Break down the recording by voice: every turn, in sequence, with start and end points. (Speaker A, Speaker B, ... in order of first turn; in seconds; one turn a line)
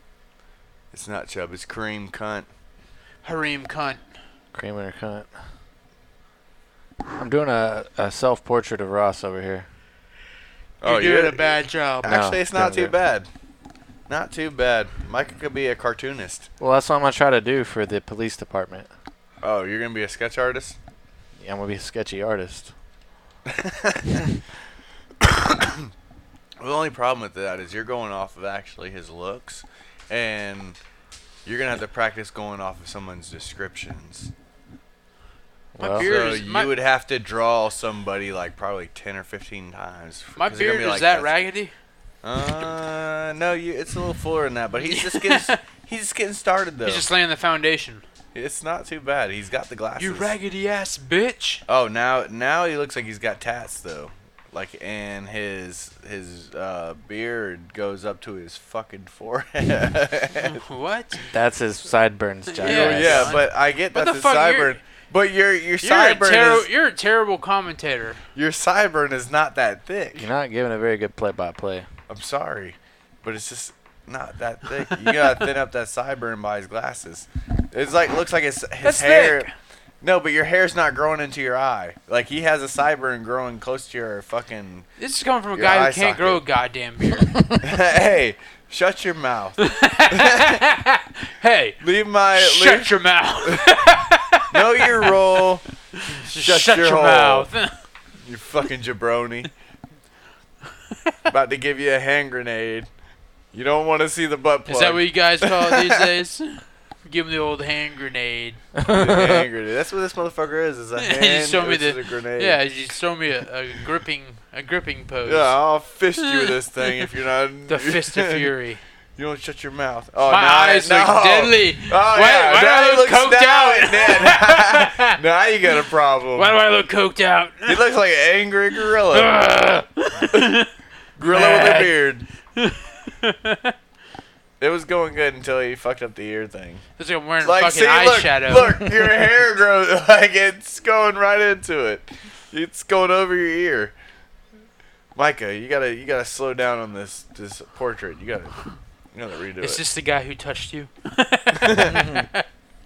Speaker A: 0.9-2.5
Speaker B: 3.2-4.0
Speaker C: 4.5-5.3
Speaker C: 7.2-9.7
Speaker A: 10.8-13.3
Speaker B: 10.8-12.2
Speaker C: 12.0-12.9
Speaker A: 14.1-16.5
Speaker C: 16.6-18.9
Speaker A: 19.4-20.8
Speaker C: 21.4-22.7
Speaker A: 23.4-24.2
Speaker A: 25.2-25.9
Speaker A: 26.6-30.8
Speaker A: 31.4-34.3
Speaker C: 35.7-36.1
Speaker B: 35.8-36.7
Speaker A: 35.9-41.3
Speaker B: 40.4-41.7
Speaker A: 42.2-47.1
Speaker B: 44.8-45.6
Speaker B: 46.8-48.0
Speaker A: 48.3-50.3
Speaker B: 50.0-51.6
Speaker A: 51.7-60.6
Speaker B: 60.4-61.2
Speaker C: 61.3-63.4
Speaker B: 62.5-64.8
Speaker A: 62.6-66.7
Speaker B: 65.8-68.2
Speaker A: 68.3-70.3
Speaker C: 70.2-71.8
Speaker A: 72.1-79.5
Speaker B: 78.8-79.5
Speaker A: 80.0-84.8
Speaker B: 85.0-87.7
Speaker A: 85.5-86.4
Speaker A: 87.6-90.6
Speaker B: 89.6-91.8
Speaker A: 91.8-93.6
Speaker B: 92.3-95.4
Speaker A: 94.5-95.6
Speaker B: 96.0-97.7
Speaker A: 96.3-97.5
Speaker A: 98.2-99.5
Speaker A: 101.3-102.9
Speaker A: 103.5-106.1
Speaker B: 104.7-108.6
Speaker C: 108.8-109.4
Speaker A: 108.9-112.6
Speaker B: 111.0-115.5
Speaker A: 115.2-118.5
Speaker B: 116.2-117.0
Speaker B: 117.7-118.8
Speaker A: 119.2-126.6
Speaker B: 120.3-125.2
Speaker B: 126.3-127.8
Speaker A: 127.7-129.4
Speaker B: 128.9-130.7
Speaker A: 131.2-132.2
Speaker B: 131.2-131.9
Speaker B: 132.6-133.7
Speaker A: 134.6-136.8
Speaker B: 137.0-139.1
Speaker A: 137.4-143.9
Speaker A: 145.1-148.6
Speaker A: 149.1-149.8
Speaker B: 149.6-152.4
Speaker A: 151.5-152.1
Speaker C: 151.9-152.3